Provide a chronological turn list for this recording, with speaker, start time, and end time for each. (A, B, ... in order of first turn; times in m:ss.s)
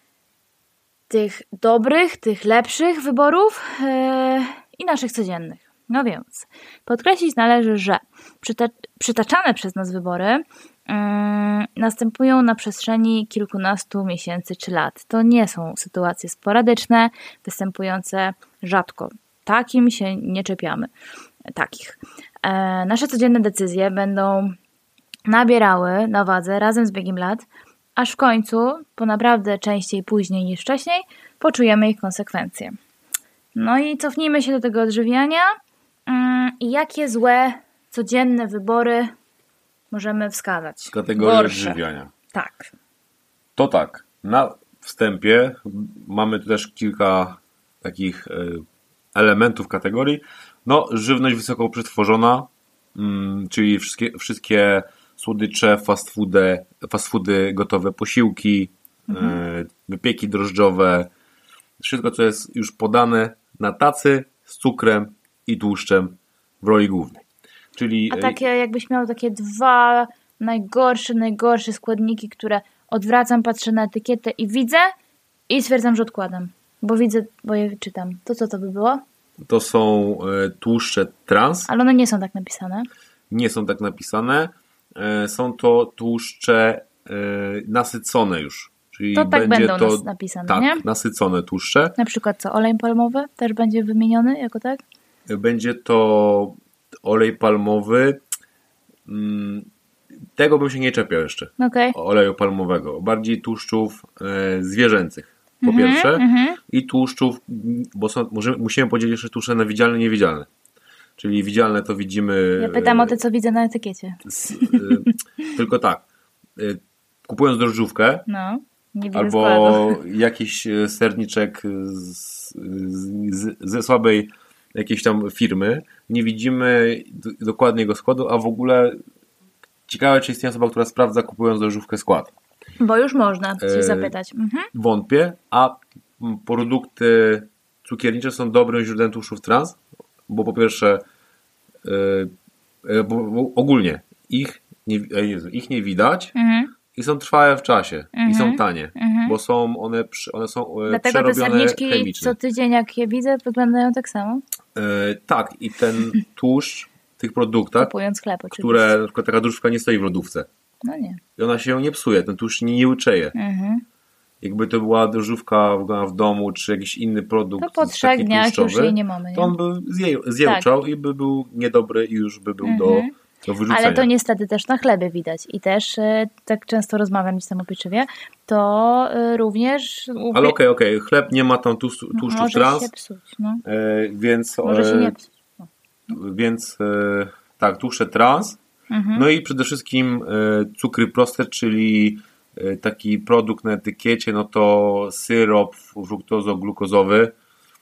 0:01.1-0:20.9 A
0:21.5-0:24.6 A
0:25.3-0:32.8 A
0:33.6-0:39.1 A
0:39.9-0:41.8 A
0:40.9-0:42.1 B
0:42.3-0:42.7 A
0:43.6-0:48.6 B
0:49.2-1:01.1 B
0:59.1-0:59.4 A
1:01.8-1:07.2 B
1:07.8-1:08.4 B
1:08.1-1:14.9 A
1:15.5-1:19.0 A
1:19.4-1:21.7 B
1:21.7-1:22.9 A
1:23.3-1:32.0 B
1:29.2-1:30.8 A
1:32.0-1:34.8 A
1:35.3-1:38.2 B
1:39.1-1:39.7 B
1:40.4-1:50.5 B
1:41.6-1:42.0 A
1:45.6-1:46.6 A
1:51.2-1:53.2 B
1:52.6-1:55.1 A
1:54.3-1:56.0 B
1:56.6-1:58.3 B
1:58.3-2:00.0 A
1:59.1-2:09.0 B
2:09.9-2:12.3 B
2:12.8-2:14.7 A
2:13.6-2:14.2 B
2:14.7-2:21.0 B
2:21.8-2:22.3 B
2:22.8-2:26.3 B
2:26.4-2:26.7 A
2:26.9-2:32.4 B
2:28.2-2:29.4 A
2:30.9-2:34.4 A
2:34.8-2:37.9 B
2:37.8-2:38.9 A
2:38.5-2:40.5 B
2:40.8-2:41.2 A
2:41.4-2:43.4 B
2:43.4-2:43.8 A
2:44.4-2:54.1 B
2:47.6-2:49.6 A
2:52.6-2:53.1 A
2:53.7-3:00.6 A
3:00.3-3:02.9 B
3:02.2-3:03.6 A
3:03.6-3:05.2 B
3:04.6-3:05.3 A
3:06.1-3:08.6 B
3:08.9-3:09.2 A
3:09.1-3:17.3 B